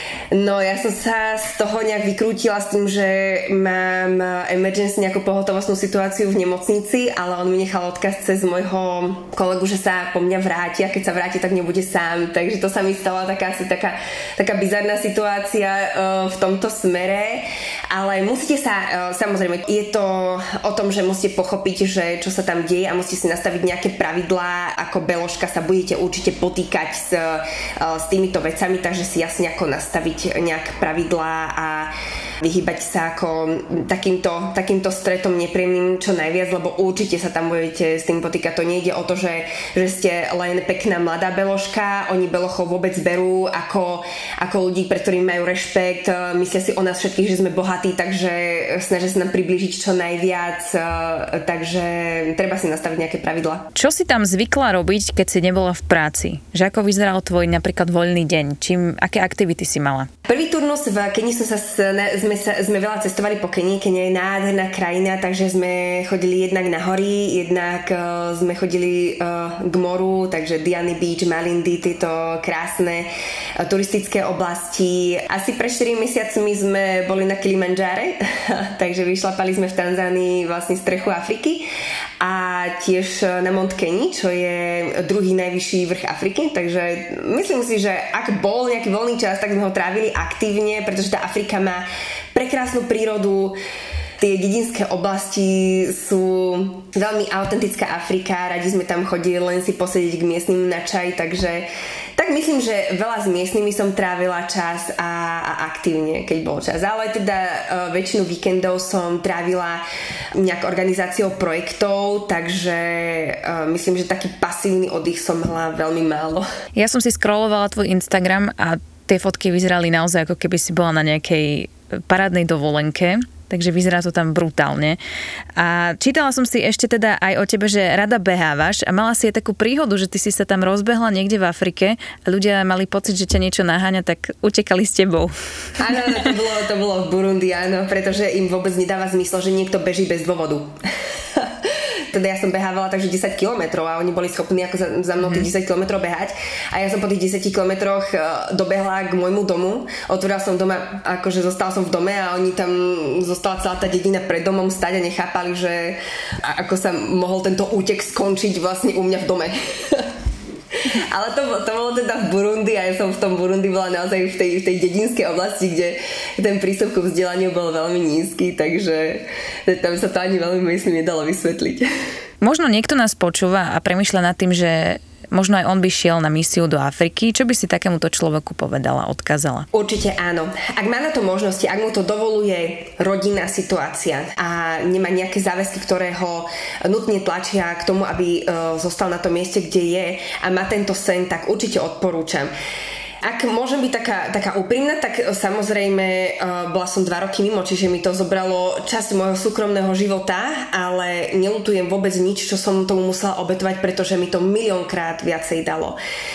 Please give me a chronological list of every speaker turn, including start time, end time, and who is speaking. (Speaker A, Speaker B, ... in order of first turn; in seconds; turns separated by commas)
Speaker A: 0.3-53.7, Speaker B: 53.8-60.1, Speaker A: 60.3-73.1, Speaker A: 73.6-81.7, Speaker A: 82.2-93.6, Speaker A: 94.2-101.7, Speaker A: 102.2-109.8, Speaker A: 110.3-116.5, Speaker B: 116.8-125.0, Speaker B: 125.6-135.3, Speaker A: 135.8-140.7, Speaker A: 141.3-160.1, Speaker B: 145.2-145.5, Speaker A: 160.8-171.9, Speaker B: 172.4-179.7, Speaker A: 179.7-192.5, Speaker A: 193.2-206.0